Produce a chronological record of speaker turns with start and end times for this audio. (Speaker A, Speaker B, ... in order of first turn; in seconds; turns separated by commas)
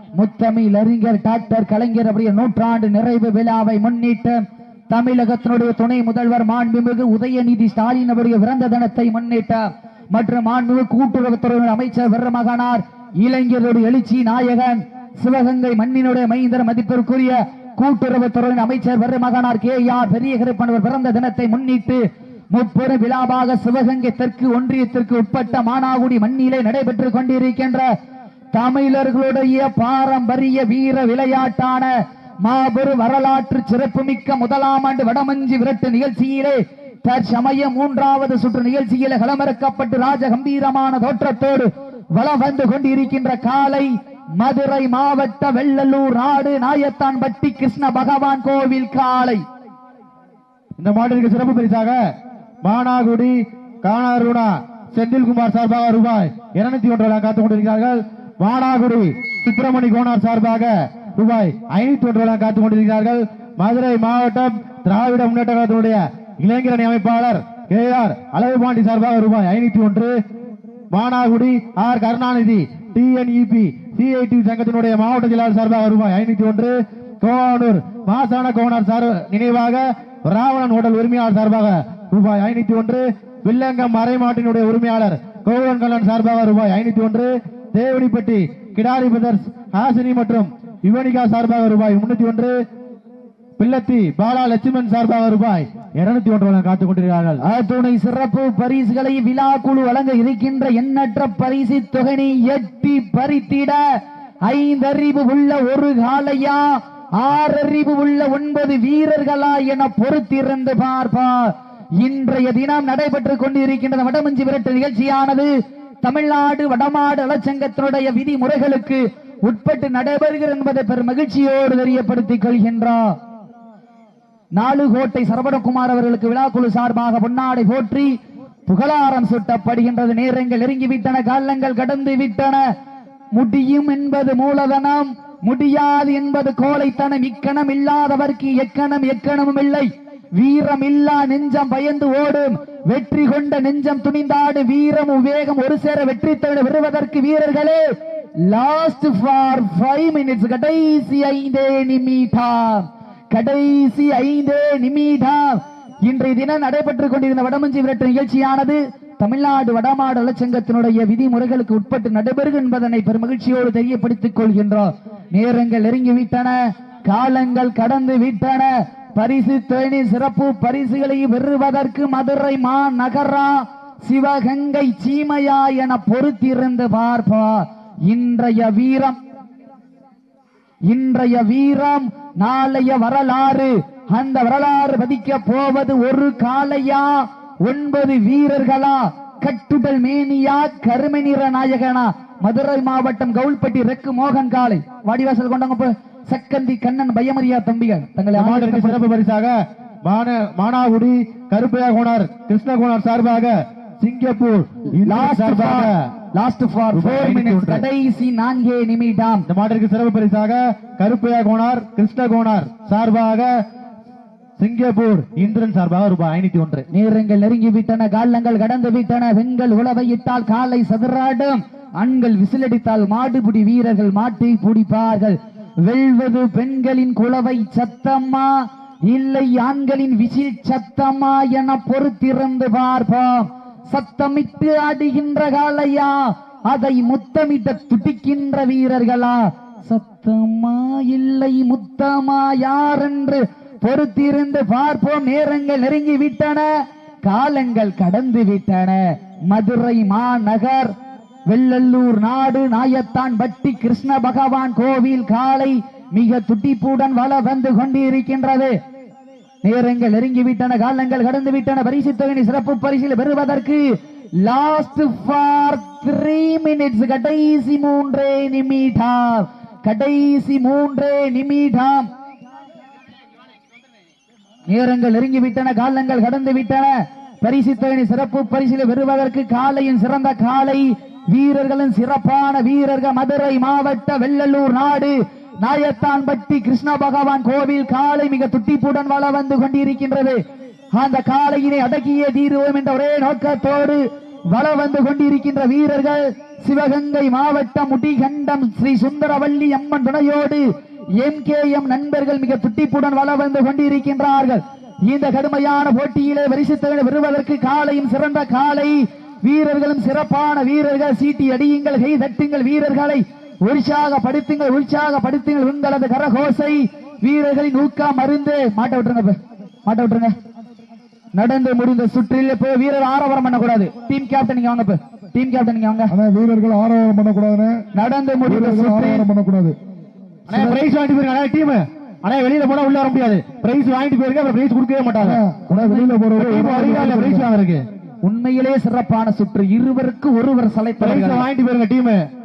Speaker A: 0.2-27.9, Speaker A: 28.5-31.9, Speaker A: 32.4-49.4, Speaker B: 50.8-52.0, Speaker B: 52.6-70.1, Speaker B: 70.9-92.5, Speaker B: 93.6-97.4, Speaker A: 97.4-103.8, Speaker A: 104.4-115.5, Speaker A: 116.0-123.1, Speaker A: 124.5-128.1, Speaker A: 128.7-132.6, Speaker A: 133.3-147.8, Speaker A: 148.4-179.2, Speaker A: 180.9-199.0, Speaker B: 198.3-205.9, Speaker A: 205.0-209.4, Speaker B: 206.9-207.8, Speaker B: 209.5-213.5, Speaker B: 214.6-216.8, Speaker A: 216.9-246.7, Speaker A: 247.2-250.9, Speaker A: 251.5-258.7, Speaker A: 259.6-263.9, Speaker A: 264.4-272.1, Speaker A: 274.7-290.4, Speaker A: 290.9-300.6, Speaker A: 301.2-320.3, Speaker A: 321.3-326.1, Speaker C: 326.1-327.8, Speaker A: 327.9-329.2, Speaker C: 328.4-329.8, Speaker B: 330.5-335.4, Speaker A: 330.5-330.8, Speaker C: 335.2-337.5, Speaker A: 335.7-337.2, Speaker B: 336.3-337.8, Speaker A: 338.2-341.4, Speaker B: 341.0-342.2